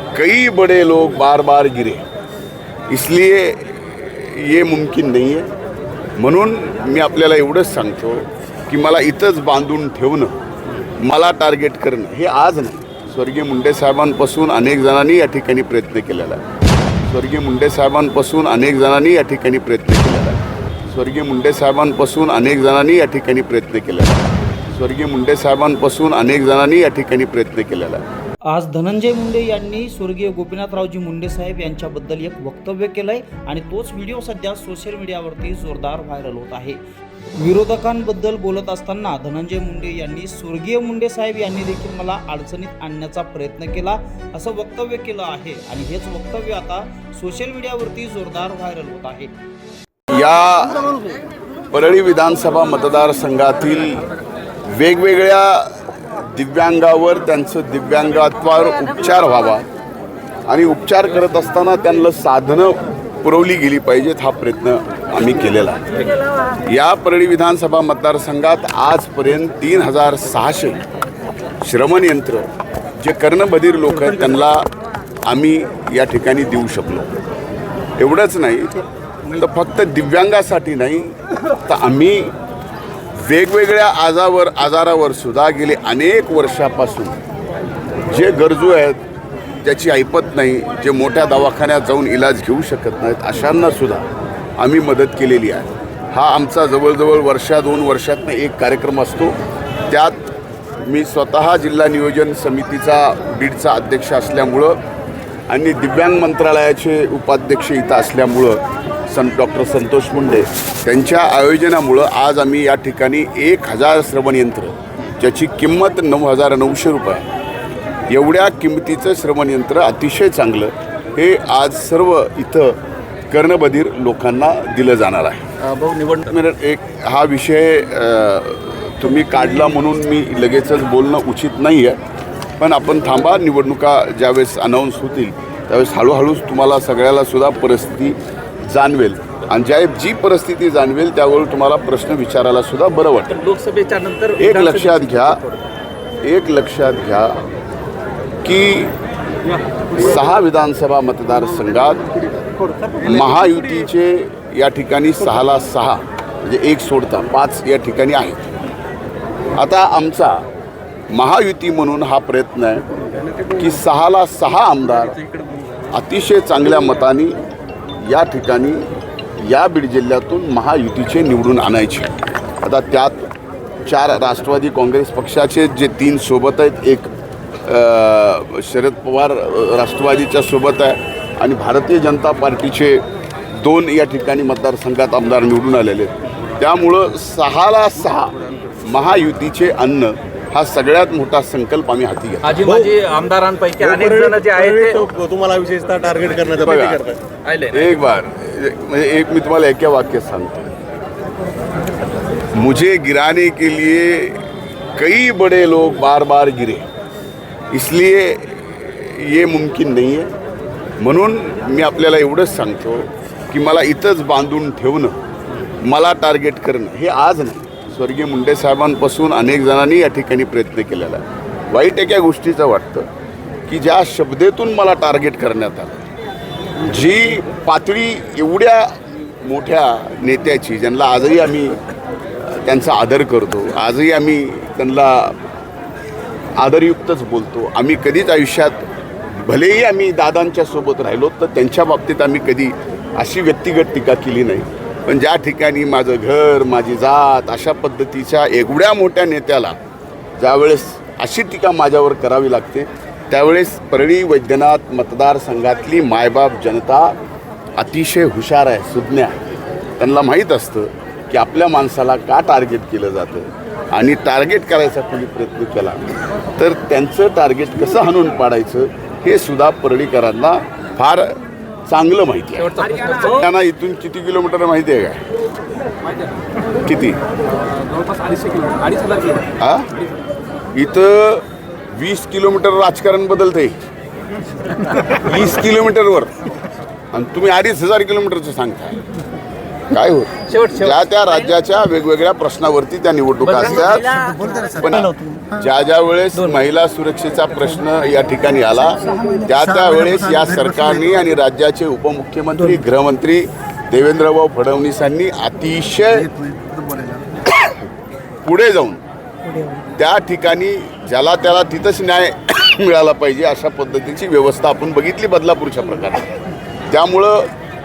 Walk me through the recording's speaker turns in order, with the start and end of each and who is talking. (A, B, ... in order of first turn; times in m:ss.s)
0:00.1-0:02.1 A
0:02.9-0:05.5 A
0:06.2-0:10.4 A
0:11.0-0:16.4 A
0:17.1-0:20.4 A
0:20.9-0:28.0 A
0:28.5-0:36.8 B
0:37.4-0:49.3 B
0:50.1-0:51.0 A
0:51.7-0:54.1 A
0:54.7-0:59.7 A
1:00.5-1:05.8 A
1:06.7-1:10.8 A
1:11.6-1:12.5 A
1:13.0-1:14.7 A
1:15.3-1:17.1 A
1:18.0-1:22.4 A
1:23.2-1:27.2 A
1:28.1-1:29.0 A
1:29.6-1:34.1 A
1:34.6-1:39.4 A
1:39.9-1:40.2 A
1:40.8-1:44.8 A
1:45.5-1:57.3 A
1:58.1-2:02.8 A
2:03.3-2:05.5 A
2:05.6-2:06.3 C
2:06.2-2:12.0 A
2:12.6-2:23.4 A
2:23.3-2:25.6 C
2:24.4-2:25.4 A
2:26.2-2:27.4 A
2:28.4-2:29.0 A
2:29.9-2:32.1 A
2:33.0-2:38.6 A
2:39.6-2:40.5 A
2:41.1-2:42.9 A
2:43.5-2:45.2 A
2:45.9-2:47.4 A
2:48.0-2:48.9 A
2:49.4-2:53.3 A
2:53.9-3:12.7 A
3:12.4-3:15.2 C
3:14.0-3:17.2 D
3:16.5-3:17.1 A
3:17.4-3:18.0 C
3:17.7-3:20.7 A
3:22.6-3:24.4 A
3:25.0-3:26.9 A
3:27.7-3:30.3 A
3:31.0-3:35.2 A
3:35.9-3:43.1 A
3:43.7-3:46.0 A
3:46.8-3:51.8 A
3:52.4-3:55.4 A
3:56.6-3:58.9 A
3:59.4-4:09.8 A
4:10.4-4:17.2 A
4:17.8-4:19.4 A
4:20.0-4:26.0 A
4:26.6-4:31.4 A
4:31.9-4:35.2 A
4:32.6-4:33.4 C
4:36.8-4:37.2 A
4:38.3-4:39.3 C
4:39.6-4:39.9 A
4:40.8-4:43.8 A
4:44.9-4:46.4 A
4:47.1-4:49.0 A
4:49.9-5:06.5 A
4:50.5-4:51.3 C
4:53.5-4:54.5 C
5:06.5-5:07.2 D
5:07.5-5:07.9 A
5:08.4-5:09.0 A
5:09.9-5:16.3 A
5:16.9-5:17.5 A